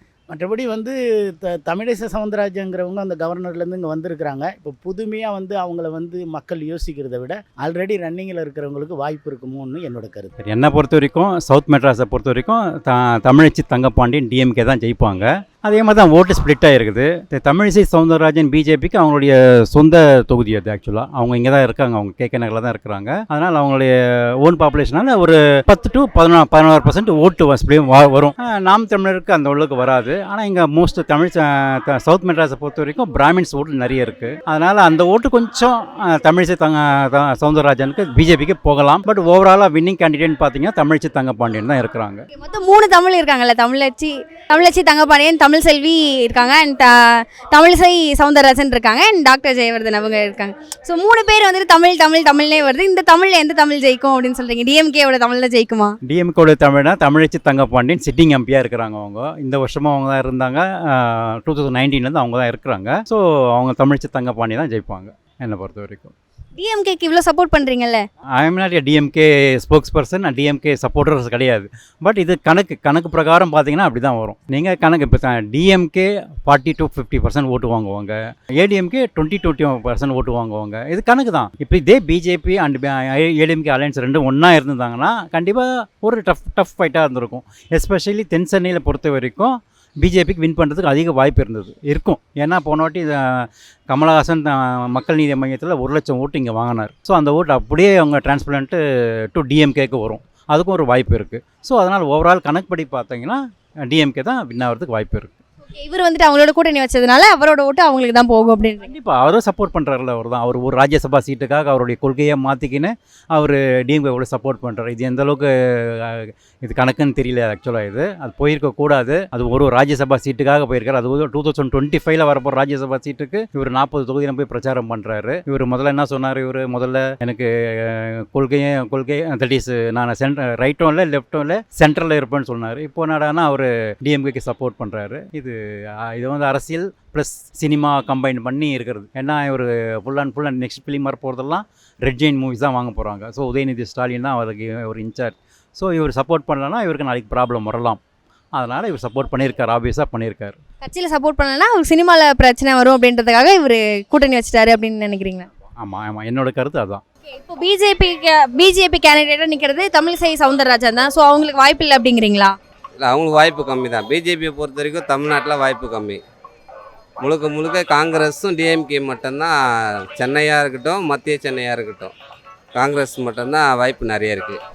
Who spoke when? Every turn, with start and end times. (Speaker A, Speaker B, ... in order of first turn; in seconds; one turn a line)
Speaker A: 0.3-10.3
Speaker B: 10.4-42.2
Speaker C: 42.4-56.0
Speaker B: 56.0-66.1
Speaker C: 66.6-68.0
Speaker B: 68.4-98.8
Speaker B: 99.3-105.4
Speaker C: 105.7-108.9
Speaker B: 108.8-135.6
Speaker B: 136.1-148.0
Speaker B: 148.6-150.6
Speaker C: 150.8-155.5
Speaker B: 155.8-157.0
Speaker C: 157.3-162.5
Speaker D: 163.0-166.2
Speaker D: 167.2-172.1
Speaker D: 172.8-174.6